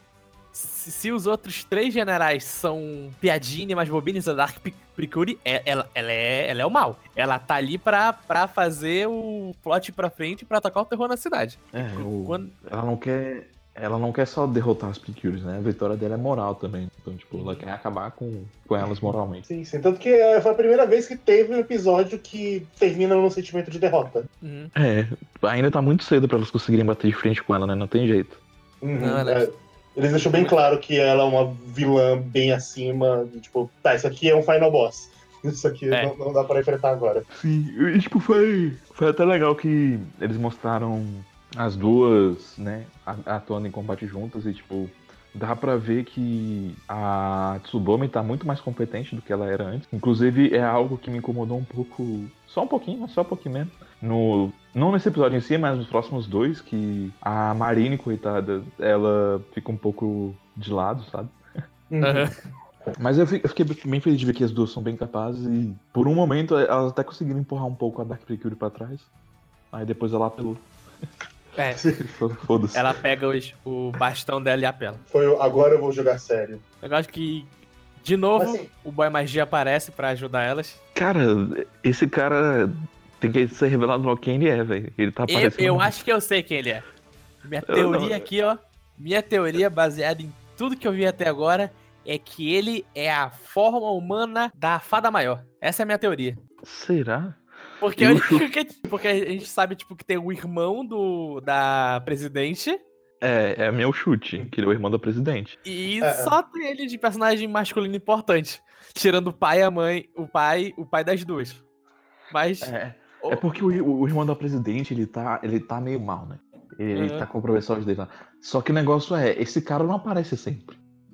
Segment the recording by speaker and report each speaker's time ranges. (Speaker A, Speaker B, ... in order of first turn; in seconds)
Speaker A: 0.5-12.5, 17.3-17.6, 24.4-24.7, 28.9-29.5, 30.1-30.6, 62.0-62.3, 72.7-75.0, 76.8-80.8, 85.3-86.8, 87.4-96.4, 97.8-102.8, 105.6-111.6, 112.3-113.4, 116.9-117.3
Speaker B: 11.7-19.4, 24.7-28.4, 37.3-61.4, 63.0-69.1, 69.7-70.6, 72.0-72.9, 80.9-86.0, 87.7-88.3, 96.6-98.5, 103.2-105.6, 112.6-120.8
Speaker C: 18.8-24.3, 28.8-37.2, 61.9-62.3, 71.7-72.1, 75.1-76.6, 78.3-78.7, 106.0-106.3